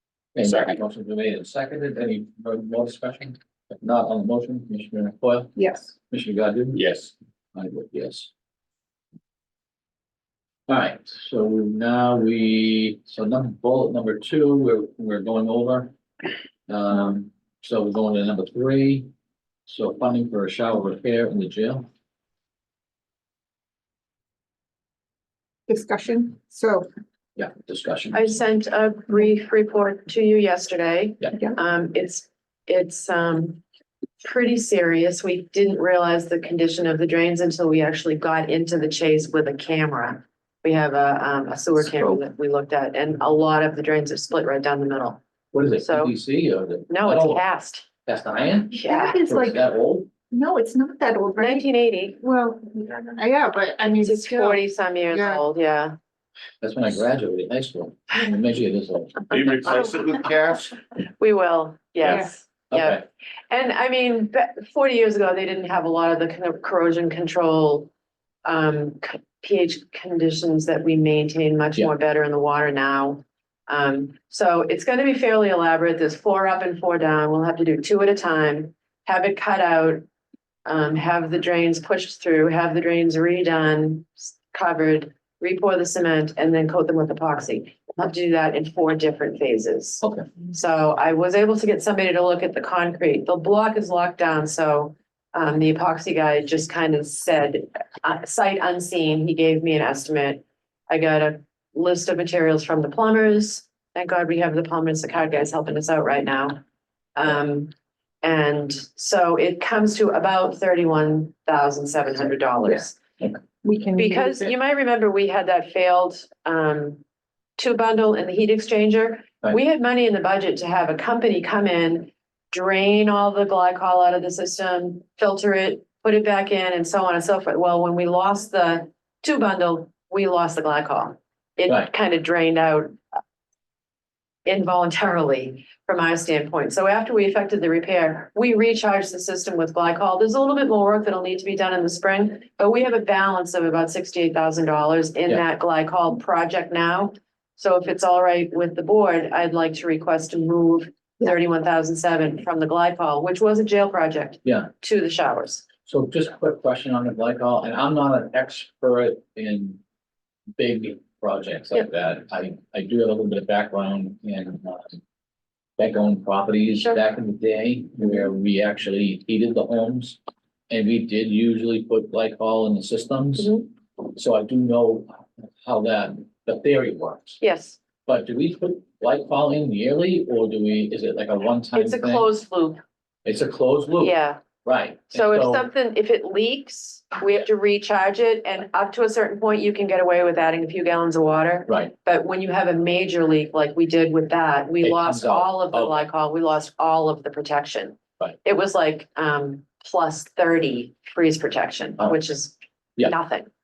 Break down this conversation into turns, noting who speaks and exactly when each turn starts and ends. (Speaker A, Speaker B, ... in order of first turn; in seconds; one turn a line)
Speaker A: 0.3-5.5
Speaker B: 0.4-0.8
Speaker C: 5.6-6.0
Speaker A: 6.1-6.8
Speaker B: 6.7-7.1
Speaker A: 7.5-8.3
Speaker A: 10.7-15.9
Speaker A: 16.7-19.1
Speaker A: 19.7-21.9
Speaker C: 25.7-26.9
Speaker A: 27.4-28.3
Speaker D: 28.1-33.6
Speaker D: 34.2-45.2
Speaker C: 41.9-42.2
Speaker A: 45.5-47.5
Speaker D: 45.8-46.1
Speaker D: 46.9-47.9
Speaker A: 48.1-50.1
Speaker C: 48.8-49.6
Speaker D: 48.8-49.2
Speaker C: 50.3-55.4
Speaker D: 51.4-52.2
Speaker D: 54.0-56.0
Speaker A: 56.6-59.8
Speaker B: 59.3-60.7
Speaker D: 61.2-67.9
Speaker A: 62.7-63.0
Speaker D: 68.5-80.0
Speaker D: 80.7-106.6
Speaker A: 90.0-90.3
Speaker D: 107.2-113.0
Speaker C: 112.6-112.9
Speaker C: 113.6-114.5
Speaker D: 114.0-117.0
Speaker D: 117.6-133.0
Speaker D: 134.4-155.6
Speaker A: 155.8-159.8
Speaker A: 160.6-165.0
Speaker A: 165.8-170.2
Speaker A: 170.7-173.6
Speaker D: 173.4-173.7
Speaker A: 174.1-177.4
Speaker D: 177.4-177.8
Speaker A: 178.1-182.3
Speaker D: 181.7-182.8
Speaker A: 183.2-185.7
Speaker D: 184.0-184.4
Speaker D: 185.1-203.5
Speaker A: 191.7-191.9
Speaker A: 194.8-196.1